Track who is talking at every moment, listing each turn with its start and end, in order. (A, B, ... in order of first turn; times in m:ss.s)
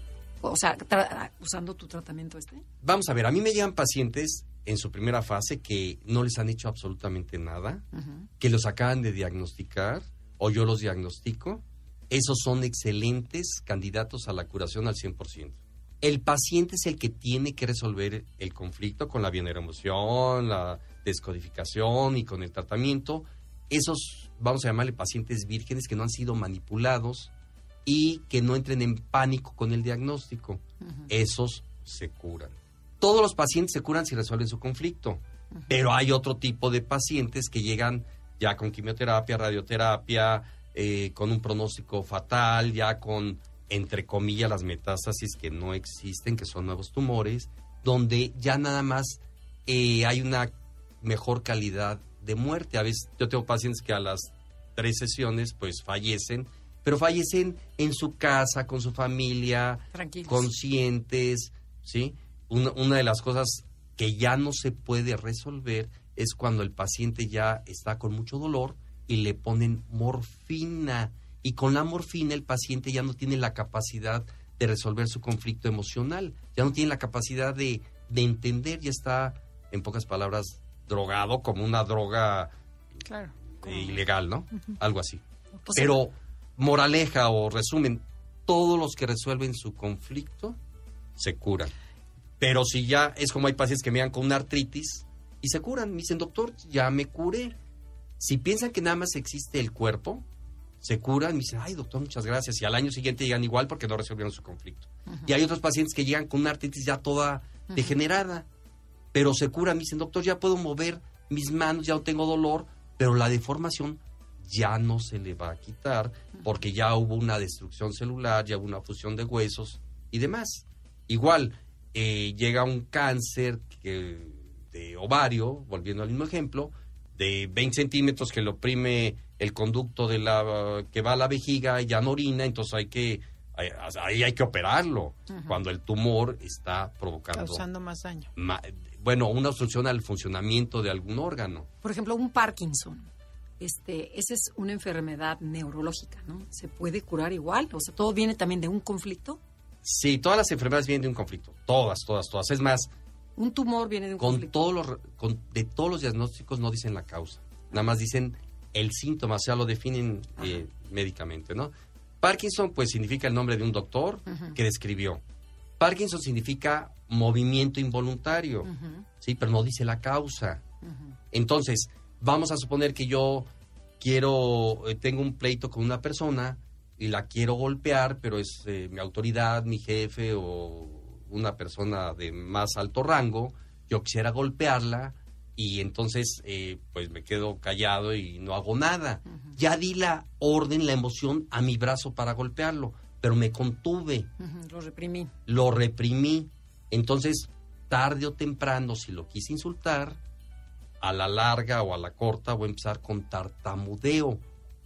0:00.4-0:02.6 A
0:02.8-0:07.8 B
0:07.9-0:08.3 A
0:08.4-0:27.3 B
0:27.8-1:22.5 B
0:59.9-1:00.5 A
1:23.0-1:24.0 C
1:23.5-1:25.2 B
1:25.7-1:30.6 B
1:31.2-1:31.7 B
1:32.4-1:37.5 B
1:38.2-1:40.2 B
1:40.8-1:48.5 B
1:49.1-2:17.6 B
2:15.3-2:15.6 A
2:17.3-2:18.3 C
2:18.4-2:21.7 B
2:21.8-2:23.1 A
2:23.6-2:29.4 A
2:29.8-2:32.9 B
2:33.4-2:34.6 A
2:34.2-2:45.2 B
2:44.3-2:44.6 A
2:45.8-2:50.6 B
2:48.6-2:49.0 A
2:50.8-2:51.1 A
2:51.3-2:53.5 B
2:54.0-3:14.3 B
3:14.4-3:15.3 A
3:15.5-3:20.2 B
3:21.0-3:24.4 B